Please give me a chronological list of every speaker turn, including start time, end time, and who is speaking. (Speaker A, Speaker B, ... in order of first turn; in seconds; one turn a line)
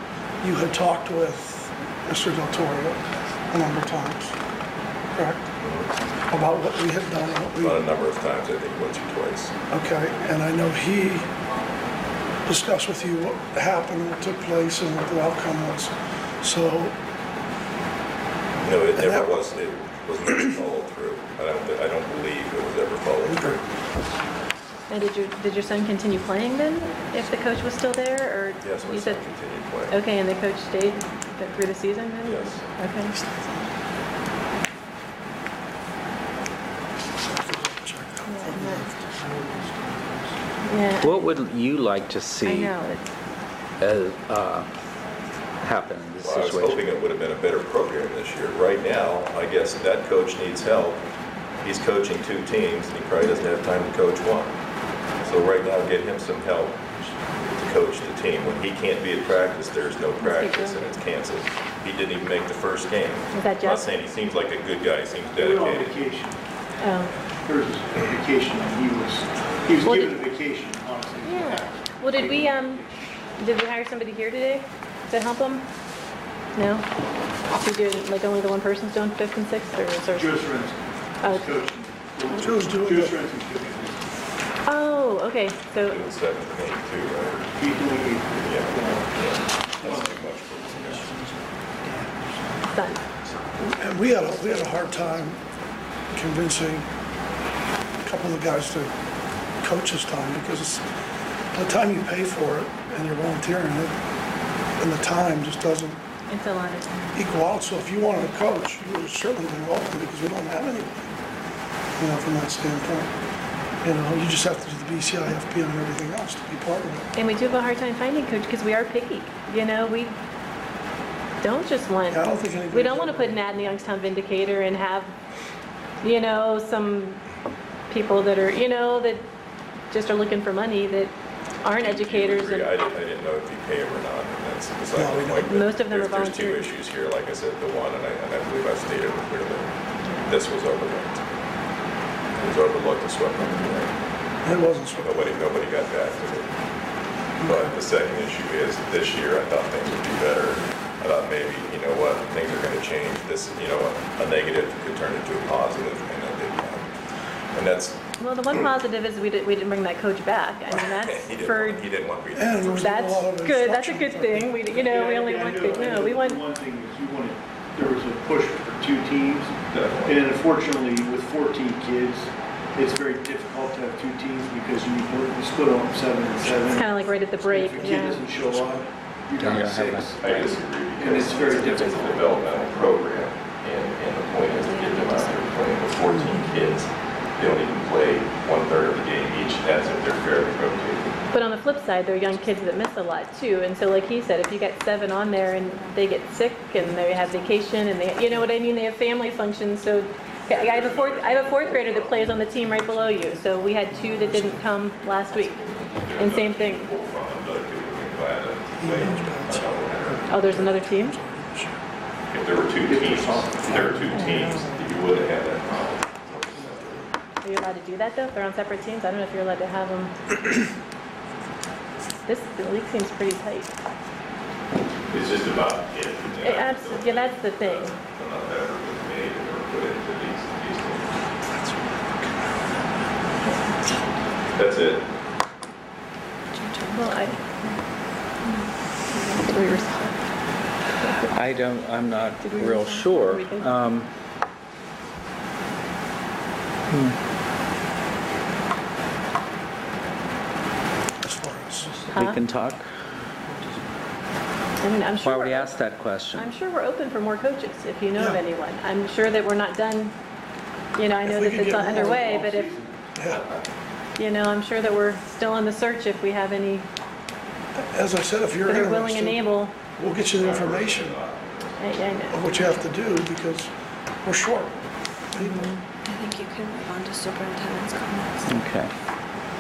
Speaker A: 0.4-4.4
Speaker A: 5.2-5.5
Speaker B: 5.6-5.9
Speaker A: 6.3-7.8
Speaker B: 7.6-9.5
Speaker A: 9.7-11.3
Speaker A: 12.5-17.0
Speaker B: 18.6-23.6
Speaker A: 18.9-19.3
Speaker A: 23.2-23.6
Speaker C: 24.9-29.2
Speaker B: 28.6-29.9
Speaker C: 29.9-33.1
Speaker B: 32.2-32.6
Speaker A: 33.2-33.6
Speaker A: 37.2-40.3
Speaker C: 38.3-38.9
Speaker C: 40.6-41.3
Speaker D: 41.0-42.7
Speaker C: 42.4-43.1
Speaker D: 43.8-44.7
Speaker D: 45.6-46.9
Speaker B: 46.2-51.0
Speaker B: 51.6-54.5
Speaker B: 55.2-66.0
Speaker C: 60.2-61.0
Speaker C: 63.3-63.9
Speaker E: 65.4-66.4
Speaker C: 66.8-67.2
Speaker E: 67.5-73.0
Speaker C: 69.8-70.2
Speaker C: 71.2-72.8
Speaker C: 73.4-75.7
Speaker C: 76.5-76.9
Speaker C: 77.6-80.4
Speaker E: 80.1-84.0
Speaker C: 81.2-81.7
Speaker A: 82.4-83.2
Speaker C: 84.7-86.0
Speaker B: 85.8-87.5
Speaker E: 87.5-89.2
Speaker B: 88.4-91.2
Speaker E: 89.8-90.1
Speaker A: 90.7-92.2
Speaker C: 92.7-93.0
Speaker A: 93.6-95.4
Speaker A: 96.1-96.9
Speaker A: 98.0-98.9
Speaker A: 99.6-100.8
Speaker A: 101.5-104.0
Speaker A: 104.8-106.0
Speaker C: 106.3-107.1
Speaker A: 107.2-111.1
Speaker A: 112.0-113.1
Speaker A: 113.8-117.1
Speaker C: 117.2-120.2
Speaker C: 121.4-125.1
Speaker A: 122.1-123.6
Speaker C: 126.0-127.2
Speaker C: 127.9-129.2
Speaker C: 129.9-131.1
Speaker C: 131.6-132.7
Speaker B: 131.8-139.7
Speaker A: 134.9-135.6
Speaker C: 135.5-136.7
Speaker B: 140.2-141.4
Speaker B: 142.4-143.9
Speaker A: 144.4-145.2
Speaker B: 145.0-146.5
Speaker B: 147.4-156.9
Speaker B: 157.5-158.0
Speaker C: 158.2-161.8
Speaker B: 160.7-163.1
Speaker A: 162.3-164.6
Speaker C: 162.8-166.4
Speaker E: 164.7-176.9
Speaker B: 169.7-170.2
Speaker C: 176.7-178.2
Speaker E: 177.4-180.3
Speaker A: 178.4-178.8
Speaker D: 179.4-180.5
Speaker B: 180.1-191.2
Speaker E: 181.0-182.3
Speaker F: 181.6-182.9
Speaker F: 184.6-185.4
Speaker A: 186.1-186.4
Speaker C: 191.3-206.9
Speaker B: 200.5-202.5
Speaker A: 202.5-204.7
Speaker B: 205.6-210.3
Speaker A: 208.8-211.8
Speaker C: 210.3-211.2
Speaker B: 212.3-217.1
Speaker E: 212.9-213.8
Speaker A: 214.0-215.0
Speaker A: 216.4-217.0
Speaker C: 217.4-220.2
Speaker C: 222.3-223.7
Speaker B: 225.1-231.2
Speaker C: 226.4-227.9
Speaker A: 231.6-232.7
Speaker B: 234.6-235.1
Speaker F: 236.5-237.8
Speaker C: 236.9-237.4
Speaker C: 239.1-240.1
Speaker F: 239.2-240.2
Speaker D: 241.3-244.1
Speaker C: 242.4-243.8
Speaker A: 251.2-251.9
Speaker D: 251.9-252.9
Speaker C: 252.1-252.4
Speaker C: 254.8-255.8
Speaker D: 255.2-256.5
Speaker C: 256.3-260.1
Speaker A: 258.1-258.4
Speaker C: 261.0-262.7
Speaker A: 261.2-262.2
Speaker E: 262.0-263.1
Speaker A: 263.2-263.4
Speaker B: 263.2-263.6
Speaker C: 264.2-266.9
Speaker A: 267.8-269.4
Speaker C: 268.6-269.7
Speaker A: 270.0-271.2
Speaker B: 270.4-272.2
Speaker C: 271.8-272.4
Speaker A: 272.3-273.7
Speaker A: 274.2-274.8
Speaker A: 275.3-275.8
Speaker F: 276.1-278.5
Speaker D: 278.4-278.9